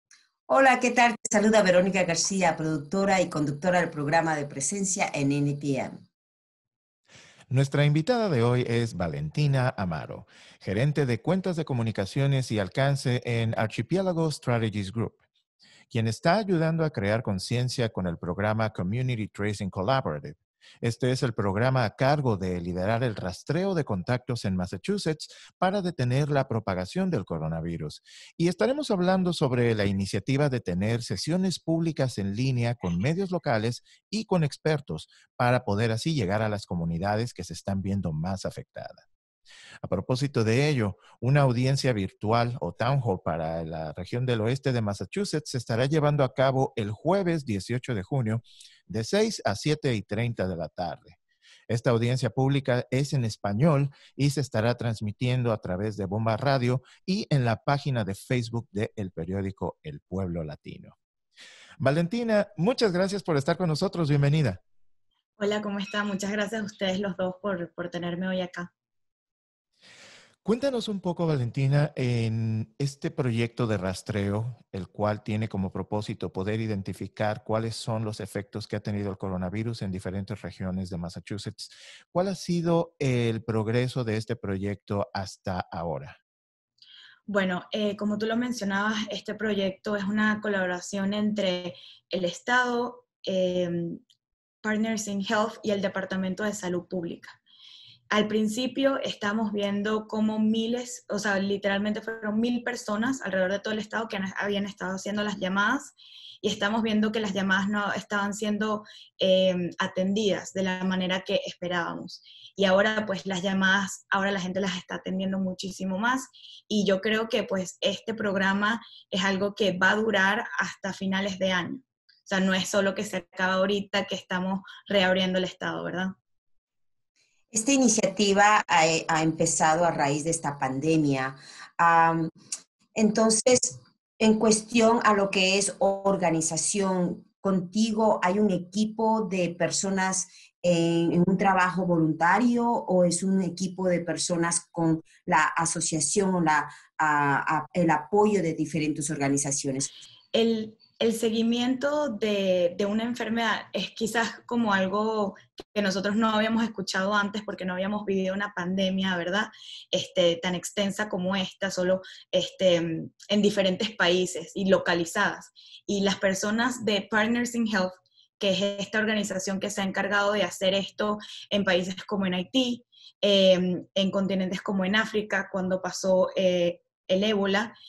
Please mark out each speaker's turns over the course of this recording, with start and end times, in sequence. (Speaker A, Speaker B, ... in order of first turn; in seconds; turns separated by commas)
Speaker A: 0.5-6.0, Speaker B: 7.5-15.2, Speaker B: 15.9-39.0, Speaker B: 39.8-51.2, Speaker B: 51.7-61.0, Speaker B: 61.8-64.6, Speaker C: 65.4-68.7, Speaker B: 70.4-86.2, Speaker C: 87.3-94.0, Speaker C: 94.6-97.4, Speaker C: 98.1-126.2, Speaker A: 127.5-132.3, Speaker A: 132.9-149.9, Speaker C: 150.3-177.7